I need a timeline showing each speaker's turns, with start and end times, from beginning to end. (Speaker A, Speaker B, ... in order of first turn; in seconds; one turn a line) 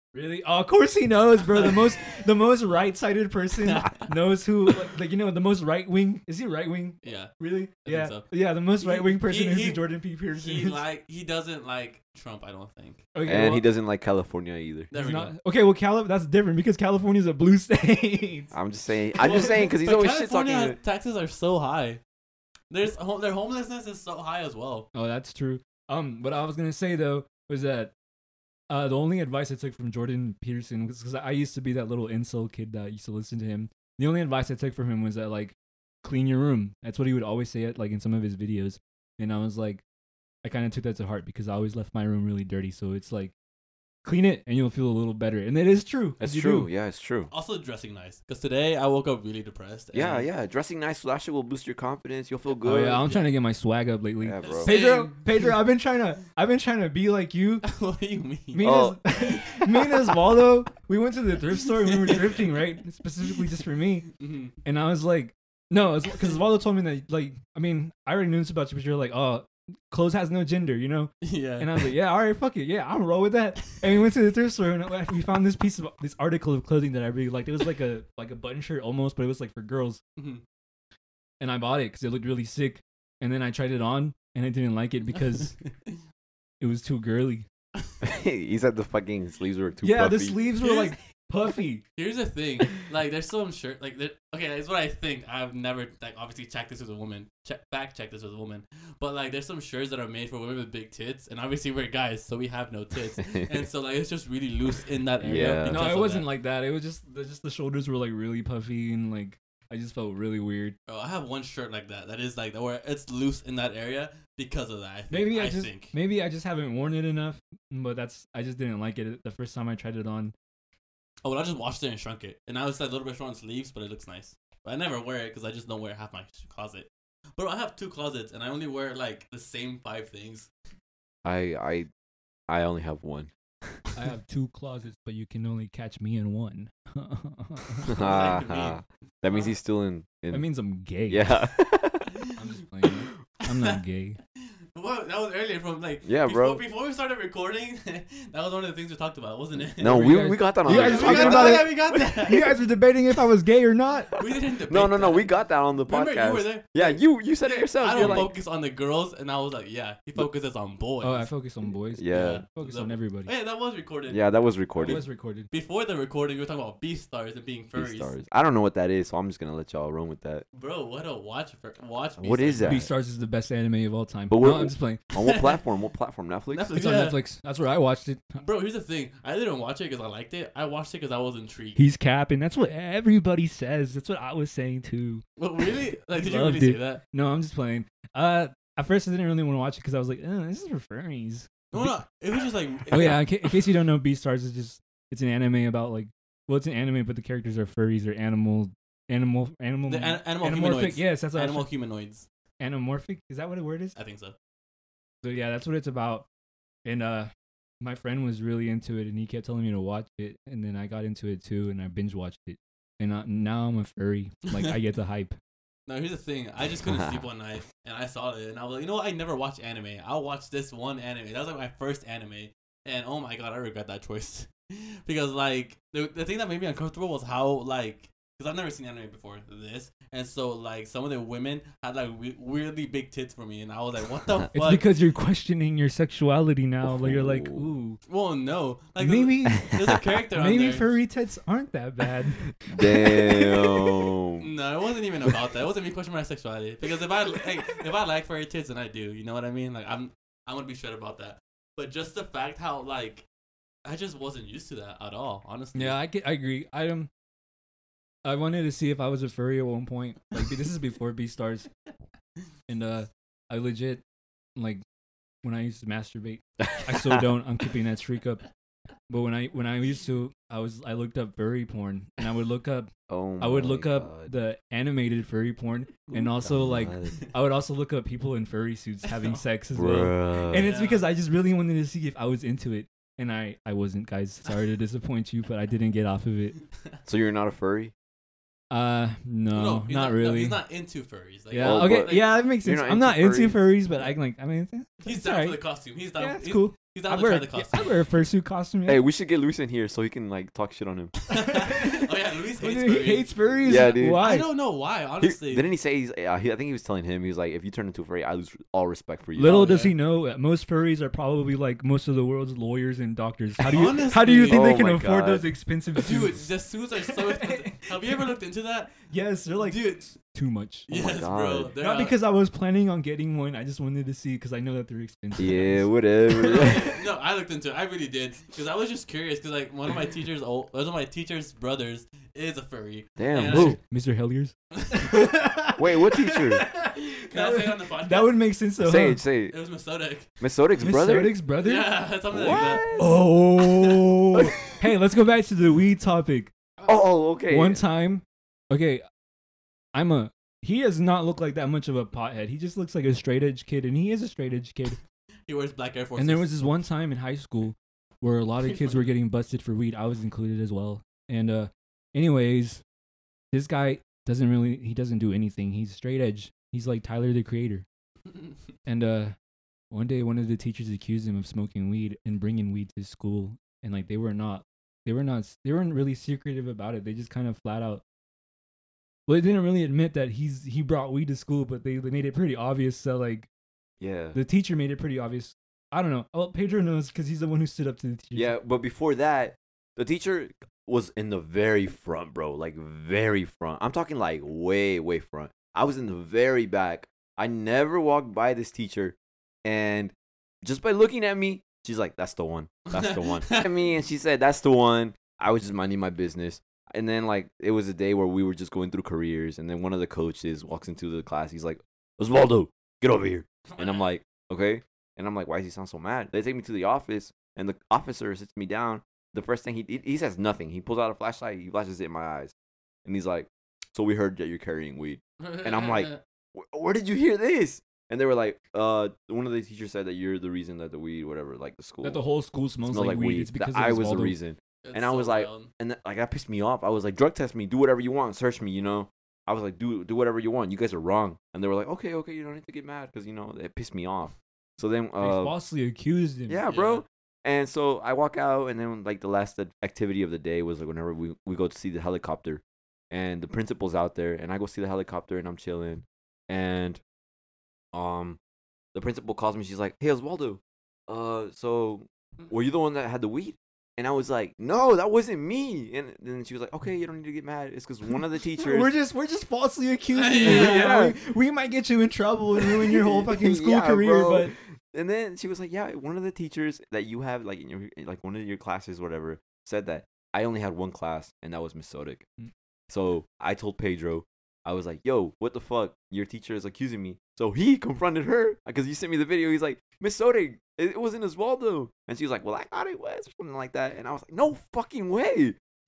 Speaker A: 0.1-10.8
Speaker B: 3.6-4.1
Speaker B: 7.0-13.0
Speaker A: 13.1-13.7
Speaker C: 13.2-14.9
Speaker B: 14.9-15.3
Speaker A: 14.9-18.5
Speaker C: 18.5-20.8
Speaker B: 19.2-22.0
Speaker B: 22.7-24.9
Speaker A: 24.9-27.9
Speaker A: 28.7-39.8
Speaker A: 40.4-43.3
Speaker A: 44.0-46.7
Speaker C: 46.2-47.3
Speaker B: 47.3-50.3
Speaker C: 49.9-53.1
Speaker A: 52.6-57.6
Speaker B: 53.0-53.3
Speaker C: 54.2-54.8
Speaker B: 54.4-55.4
Speaker B: 57.6-59.7
Speaker A: 58.5-64.1
Speaker C: 58.6-59.0
Speaker B: 61.8-62.5
Speaker B: 64.2-64.5
Speaker A: 64.7-80.0
Speaker B: 71.2-71.9
Speaker B: 80.2-80.4
Speaker A: 81.4-85.5
Speaker B: 85.7-86.0
Speaker A: 86.6-87.5
Speaker C: 88.0-90.4
Speaker A: 89.8-91.8
Speaker B: 90.6-91.0
Speaker B: 92.0-106.3
Speaker C: 105.2-105.9
Speaker A: 105.2-110.8
Speaker B: 110.9-115.9
Speaker A: 115.1-120.3
Speaker B: 121.2-130.5
Speaker C: 131.2-131.9
Speaker C: 132.5-133.3
Speaker A: 133.9-137.9
Speaker C: 137.9-140.5
Speaker B: 137.9-139.5
Speaker A: 140.3-141.3
Speaker C: 141.1-142.1
Speaker A: 142.4-144.2
Speaker B: 143.5-143.8
Speaker B: 144.8-152.6
Speaker C: 146.1-146.6
Speaker C: 149.7-152.3
Speaker A: 149.8-154.1
Speaker B: 154.2-155.3
Speaker C: 154.7-158.3
Speaker B: 155.8-161.3
Speaker A: 158.0-158.3
Speaker A: 161.0-163.3
Speaker C: 161.9-162.4
Speaker B: 162.1-168.2
Speaker C: 164.1-165.0
Speaker A: 164.8-165.5
Speaker C: 167.8-170.4
Speaker B: 170.5-172.8
Speaker C: 172.2-172.9
Speaker A: 172.6-175.0
Speaker C: 174.3-176.7
Speaker B: 175.2-175.6
Speaker B: 176.5-177.2
Speaker A: 176.7-178.4
Speaker B: 178.4-181.8
Speaker A: 181.8-185.2
Speaker B: 185.4-187.0
Speaker A: 186.1-192.0
Speaker B: 191.7-193.7
Speaker A: 192.9-201.7
Speaker B: 199.9-202.3
Speaker A: 202.6-203.9
Speaker B: 204.0-204.3
Speaker A: 205.2-206.3
Speaker A: 206.8-215.4
Speaker B: 214.5-214.8
Speaker B: 215.9-234.9
Speaker C: 216.8-217.2
Speaker A: 234.5-238.0
Speaker C: 236.8-237.7
Speaker B: 238.1-240.9
Speaker A: 239.0-239.7
Speaker A: 240.3-242.5
Speaker C: 242.7-244.5
Speaker B: 244.4-253.2
Speaker B: 253.9-256.0
Speaker A: 255.8-257.1
Speaker A: 258.2-261.7
Speaker A: 262.7-264.0
Speaker A: 264.6-264.8
Speaker A: 265.4-268.4
Speaker C: 266.6-267.2
Speaker A: 269.1-286.6
Speaker C: 273.1-274.3
Speaker C: 276.1-277.2
Speaker B: 279.1-279.4
Speaker C: 279.7-280.7
Speaker B: 280.6-281.1
Speaker C: 287.1-287.9
Speaker A: 288.7-290.6
Speaker B: 289.5-292.3
Speaker A: 291.5-295.6
Speaker C: 291.6-293.7
Speaker B: 295.0-298.0
Speaker A: 296.2-299.1
Speaker C: 298.9-301.1
Speaker B: 301.3-305.7
Speaker A: 301.3-302.1
Speaker A: 302.6-304.5
Speaker C: 303.6-304.4
Speaker C: 305.2-309.7
Speaker A: 309.4-316.5
Speaker B: 309.4-310.0
Speaker B: 313.6-314.7
Speaker C: 314.4-315.5
Speaker B: 316.0-319.0
Speaker A: 317.1-317.9
Speaker A: 319.1-320.9
Speaker B: 319.5-320.1
Speaker B: 320.9-322.2
Speaker C: 320.9-321.7
Speaker A: 321.8-326.7
Speaker C: 325.4-326.9
Speaker B: 326.4-333.8
Speaker C: 333.2-333.8
Speaker A: 333.5-339.2
Speaker B: 334.7-335.4
Speaker C: 335.8-336.6
Speaker B: 336.9-338.4
Speaker C: 338.8-339.6
Speaker B: 339.5-340.3
Speaker C: 340.4-341.4
Speaker A: 340.8-342.0
Speaker B: 341.5-343.0
Speaker C: 342.3-343.2
Speaker A: 342.9-346.5
Speaker B: 343.6-344.6
Speaker C: 346.9-347.9
Speaker A: 347.5-349.1
Speaker A: 349.9-355.0
Speaker B: 355.5-356.6
Speaker A: 356.2-362.8
Speaker A: 363.5-367.9
Speaker A: 368.9-369.4
Speaker A: 369.9-378.0
Speaker A: 379.3-383.5
Speaker C: 384.0-384.4
Speaker A: 384.3-388.5
Speaker C: 388.4-422.5
Speaker B: 402.9-403.7
Speaker B: 413.7-414.1
Speaker C: 423.1-432.2
Speaker B: 425.4-426.2
Speaker A: 432.0-434.4
Speaker C: 432.9-445.5
Speaker B: 434.8-435.7
Speaker A: 445.2-446.6
Speaker C: 446.5-457.0
Speaker B: 446.7-447.0
Speaker C: 457.9-458.4
Speaker C: 458.9-468.9
Speaker A: 468.6-474.5
Speaker B: 470.1-471.0
Speaker C: 470.4-471.2
Speaker C: 472.8-482.2
Speaker C: 482.9-495.6